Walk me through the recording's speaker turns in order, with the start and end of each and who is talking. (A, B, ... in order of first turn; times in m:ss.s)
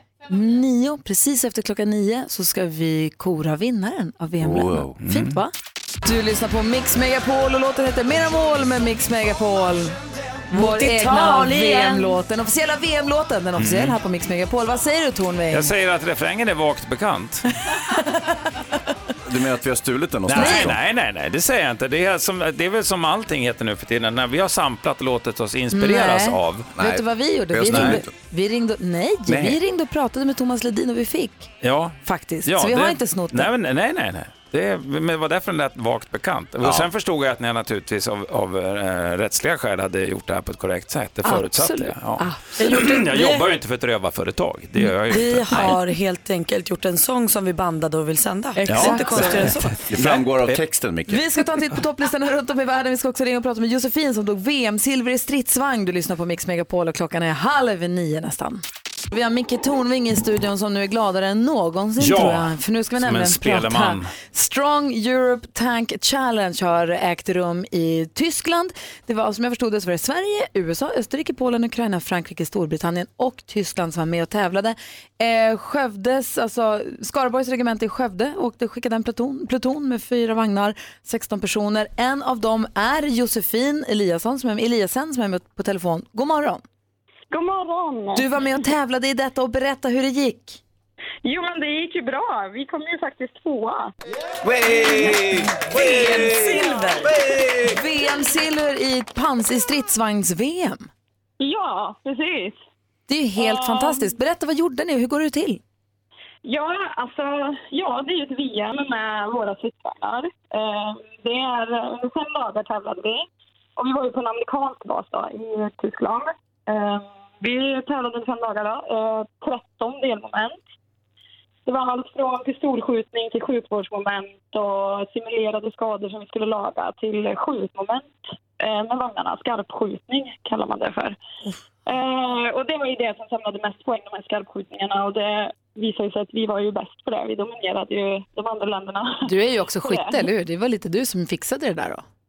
0:00.2-0:05.5 A
0:04.4-0:05.0 B
0:05.0-0:05.4 C
0:06.0-0:10.0 A
0:10.5-0:12.2 D
0:10.5-0:15.7 A
0:13.6-0:14.0 C
0:15.5-0:17.4 C
0:19.2-0:20.8 B
0:20.3-0:26.7 C
0:20.3-0:20.7 A
0:25.7-0:31.5 A
0:26.8-0:28.1 B
0:27.7-0:28.0 C
0:29.3-0:29.6 B
0:31.6-0:45.8 C
0:32.0-0:33.5 A
0:36.6-0:36.9 B
0:41.2-0:43.0 A
0:42.6-0:43.4 D
0:44.8-0:49.8 D
0:48.6-0:49.6 A
0:48.7-0:50.6 C
0:49.9-0:51.2 B
0:51.1-1:26.6 A
1:02.0-1:04.1 C
1:27.3-1:28.3 E
1:28.2-1:30.6 A
1:31.2-1:33.9 E
1:34.4-1:37.8 B
1:35.7-1:37.1 D
1:37.7-1:40.9 A
1:41.4-1:42.6 E
1:43.1-1:45.6 A
1:43.4-1:44.1 E
1:46.4-2:00.6 E
2:01.7-2:11.2 E
2:11.9-2:19.3 E
2:19.2-2:22.0 A
2:19.8-2:20.3 E